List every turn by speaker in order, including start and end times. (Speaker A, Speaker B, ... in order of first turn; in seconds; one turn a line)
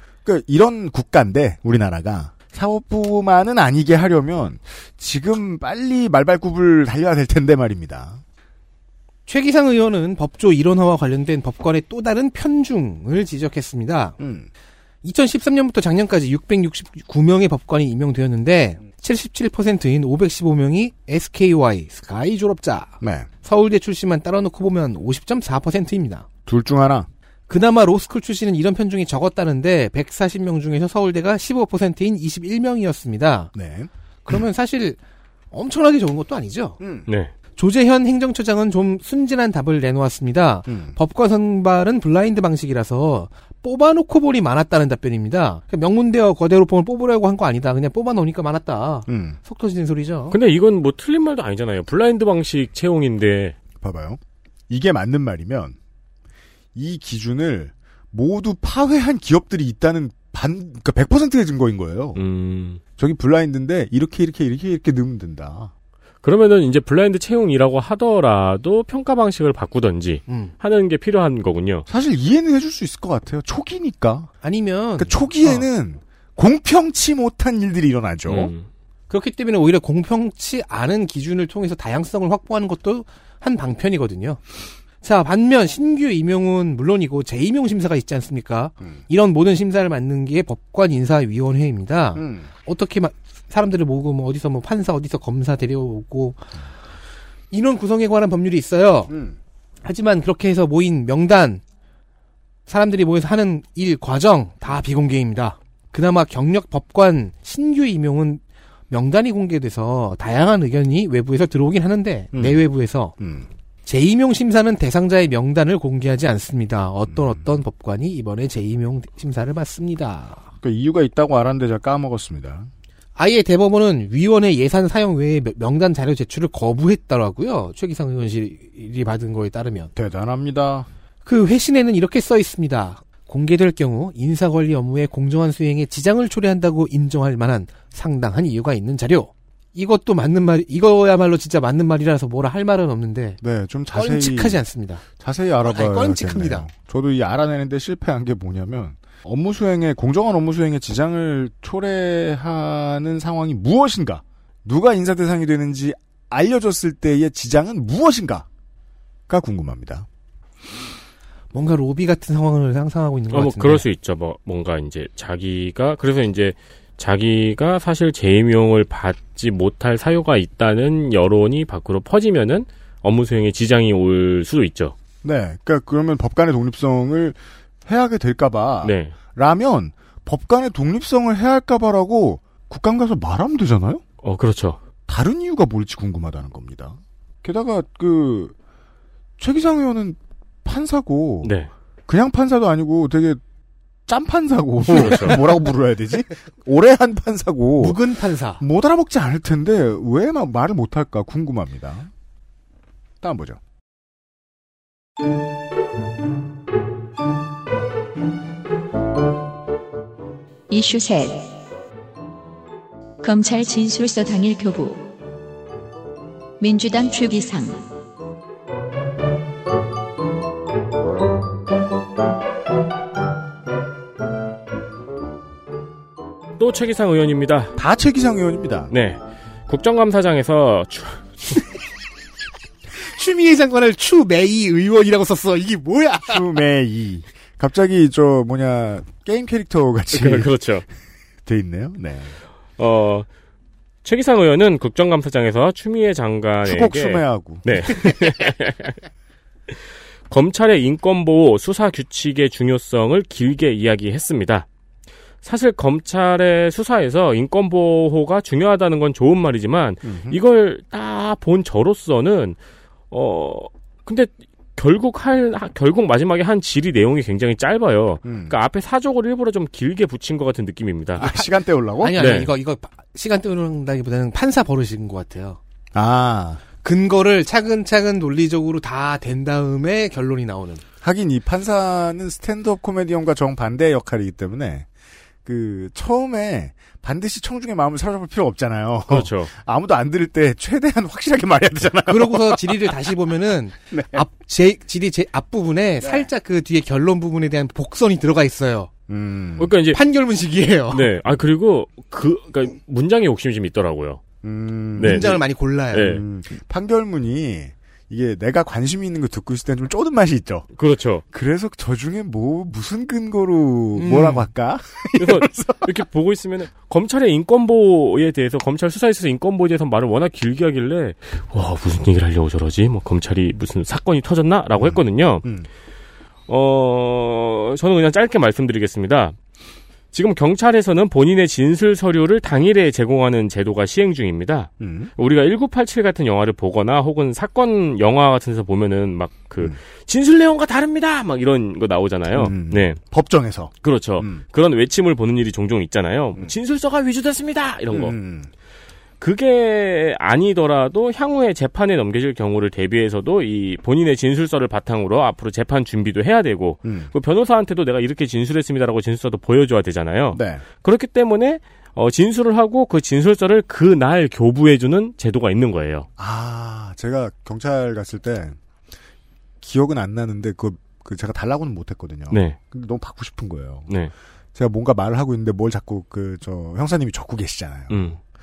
Speaker A: 0.2-8.2
Speaker B: 9.3-14.2
Speaker A: 14.2-14.5
Speaker B: 15.0-26.3
Speaker A: 23.0-23.3
Speaker A: 26.4-27.1
Speaker B: 27.5-33.5
Speaker A: 33.5-33.9
Speaker B: 34.2-35.0
Speaker B: 35.5-36.8
Speaker A: 36.8-37.1
Speaker B: 37.6-50.4
Speaker A: 40.7-41.0
Speaker A: 49.1-49.4
Speaker C: 50.3-53.6
Speaker A: 53.8-55.8
Speaker A: 56.7-62.2
Speaker C: 62.1-62.8
Speaker A: 63.0-65.7
Speaker C: 66.2-71.8
Speaker B: 70.3-70.5
Speaker A: 71.9-74.3
Speaker B: 74.4-75.6
Speaker A: 75.0-78.5
Speaker C: 78.3-78.7
Speaker B: 79.1-84.4
Speaker B: 85.0-96.5
Speaker A: 92.1-92.5
Speaker B: 97.5-99.1
Speaker A: 99.1-99.4
Speaker B: 99.8-101.6
Speaker B: 102.7-113.1
Speaker A: 112.3-112.6
Speaker A: 113.2-113.5
Speaker B: 113.8-120.4
Speaker A: 117.1-117.4
Speaker A: 120.6-122.7
Speaker B: 123.2-129.9
Speaker A: 129.9-130.9
Speaker B: 131.2-143.4
Speaker A: 143.4-144.6
Speaker B: 143.9-145.0
Speaker A: 145.2-158.4
Speaker B: 145.6-146.7
Speaker A: 159.3-160.1
Speaker B: 161.5-163.8
Speaker C: 163.3-174.9
Speaker A: 175.2-184.0
Speaker C: 178.8-179.1
Speaker C: 184.2-184.8
Speaker A: 185.1-188.5
Speaker A: 189.4-191.5
Speaker C: 191.4-191.7
Speaker A: 192.1-193.4
Speaker A: 194.1-198.0
Speaker C: 194.8-195.4
Speaker B: 197.8-198.6
Speaker A: 198.6-202.1
Speaker A: 203.2-203.6
Speaker D: 210.7-211.5
Speaker D: 213.2-215.1
Speaker D: 216.6-217.8
Speaker C: 226.6-227.7
Speaker A: 227.8-228.9
Speaker C: 228.9-231.3
Speaker B: 233.0-236.4
Speaker A: 236.3-240.5
Speaker C: 240.1-240.8
Speaker A: 241.4-242.3
Speaker C: 242.8-243.2
Speaker C: 244.0-249.0
Speaker A: 246.6-248.1
Speaker C: 250.3-254.7
Speaker C: 255.4-262.6
Speaker A: 260.0-260.4
Speaker C: 263.1-271.3
Speaker A: 268.2-268.5
Speaker A: 271.2-272.2
Speaker B: 272.0-275.6
Speaker C: 272.2-272.5
Speaker A: 275.9-276.6
Speaker B: 276.8-280.8
Speaker A: 281.0-284.9
Speaker A: 285.4-293.1
Speaker C: 289.1-289.5
Speaker B: 292.1-298.9
Speaker A: 293.9-294.2
Speaker A: 296.0-296.3
Speaker A: 299.1-299.7
Speaker C: 299.6-300.0
Speaker B: 299.9-301.1
Speaker C: 300.9-304.2
Speaker A: 304.4-305.4
Speaker C: 305.0-305.4
Speaker B: 305.0-306.2
Speaker C: 305.9-306.2
Speaker A: 306.0-310.7
Speaker C: 310.8-311.2
Speaker A: 311.3-316.0
Speaker B: 313.9-314.5
Speaker C: 315.2-325.4
Speaker A: 324.8-325.7
Speaker C: 326.5-329.4
Speaker C: 330.1-343.0
Speaker A: 334.8-335.1
Speaker A: 342.3-344.4
Speaker C: 343.8-348.1
Speaker A: 347.9-348.5
Speaker C: 349.2-366.1
Speaker A: 356.8-357.1
Speaker A: 360.3-360.6
Speaker A: 366.2-368.6
Speaker A: 369.6-373.9
Speaker C: 372.3-372.6
Speaker A: 374.5-378.0
Speaker C: 377.9-378.2